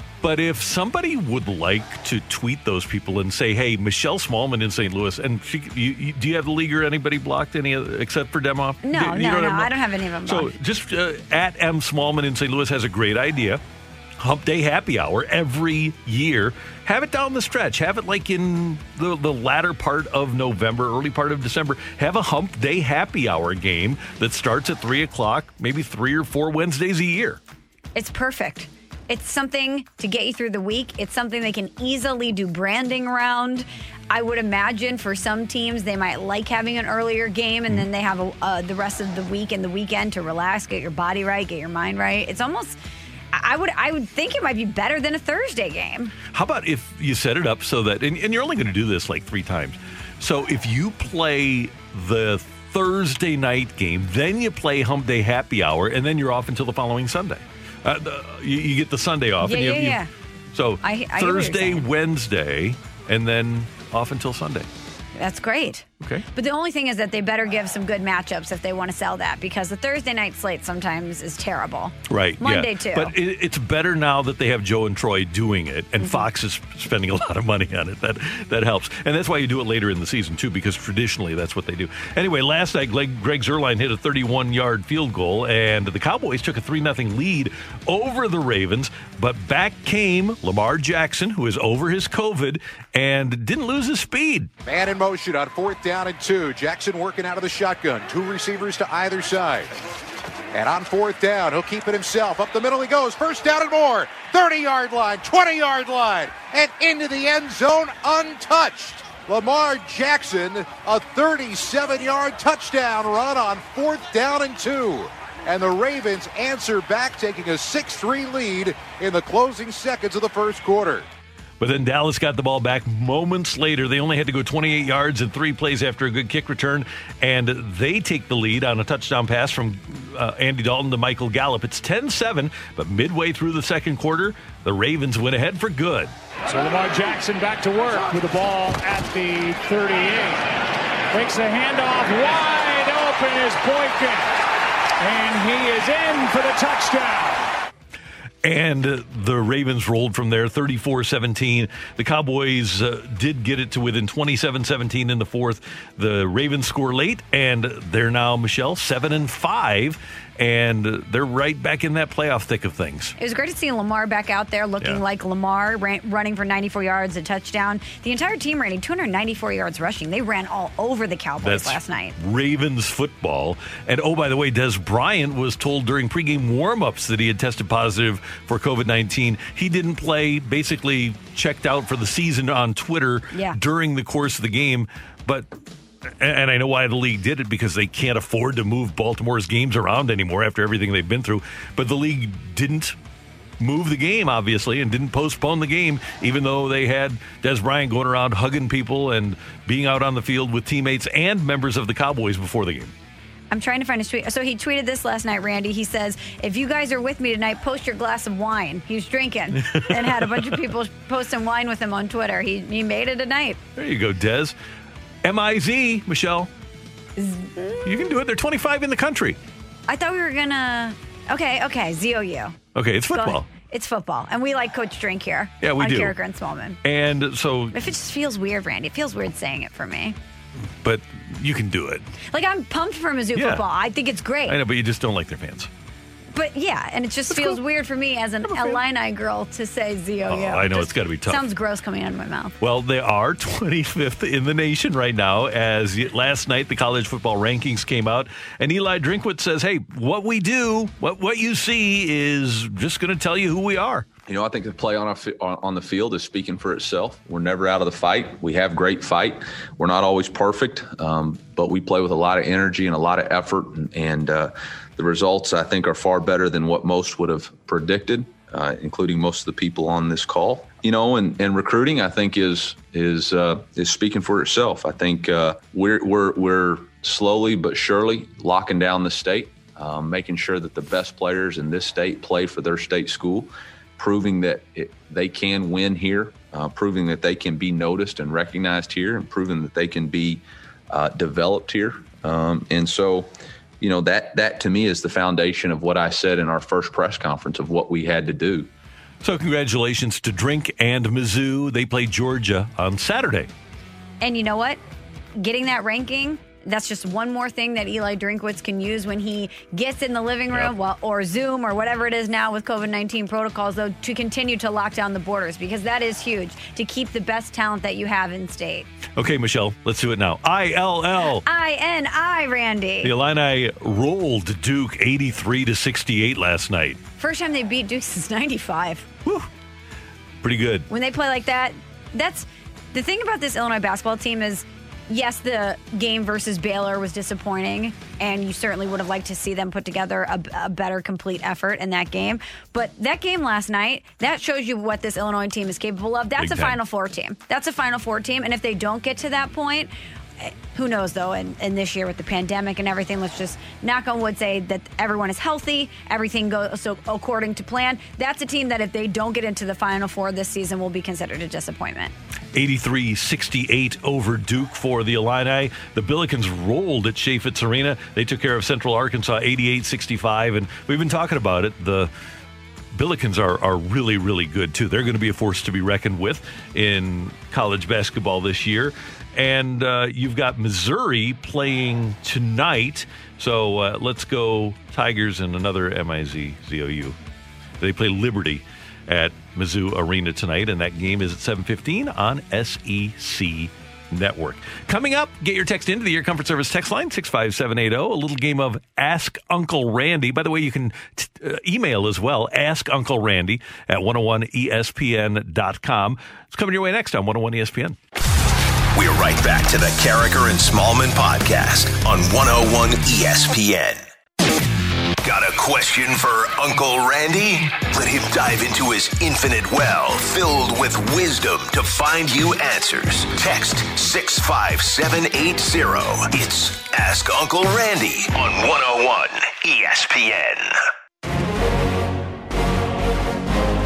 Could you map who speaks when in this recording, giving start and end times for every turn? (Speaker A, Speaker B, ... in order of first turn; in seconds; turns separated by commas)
Speaker A: 0.2-13.6, Speaker B: 8.8-10.5, Speaker A: 14.2-27.4, Speaker B: 27.9-42.8, Speaker B: 43.3-46.1, Speaker A: 46.3-60.0, Speaker B: 59.4-60.1, Speaker A: 60.5-64.7, Speaker B: 60.8-61.8, Speaker B: 65.2-73.1, Speaker A: 72.1-94.5, Speaker C: 94.6-99.7, Speaker C: 100.5-121.0, Speaker A: 121.6-136.1, Speaker D: 136.5-140.6, Speaker D: 141.1-144.3, Speaker D: 145.0-147.5, Speaker A: 148.4-163.1, Speaker B: 163.2-172.2, Speaker A: 171.4-185.5, Speaker B: 183.3-183.6, Speaker A: 186.0-192.9, Speaker A: 193.6-202.9, Speaker B: 203.5-213.6, Speaker A: 209.6-210.6, Speaker A: 213.8-214.5, Speaker A: 215.2-216.5, Speaker B: 217.2-218.1, Speaker A: 217.8-219.4, Speaker B: 219.9-222.6, Speaker A: 222.7-223.5, Speaker B: 223.1-226.8, Speaker A: 225.6-226.2, Speaker A: 226.8-227.8, Speaker B: 227.7-230.2, Speaker A: 230.8-232.1, Speaker B: 232.3-234.6, Speaker A: 233.3-233.6, Speaker A: 234.5-235.7, Speaker B: 236.3-242.5, Speaker A: 237.3-237.6, Speaker A: 238.4-238.8, Speaker A: 240.2-241.4, Speaker A: 242.6-254.1, Speaker E: 254.3-298.7, Speaker A: 299.2-303.5, Speaker B: 304.2-304.8, Speaker B: 305.4-318.9, Speaker A: 319.1-321.4, Speaker B: 321.4-323.1, Speaker A: 323.0-327.0, Speaker B: 327.2-329.1, Speaker A: 330.4-330.9, Speaker B: 330.9-362.1, Speaker A: 346.4-346.8, Speaker A: 362.5-372.1, Speaker A: 372.9-387.2, Speaker A: 387.8-408.0, Speaker F: 408.9-414.0, Speaker F: 415.2-430.8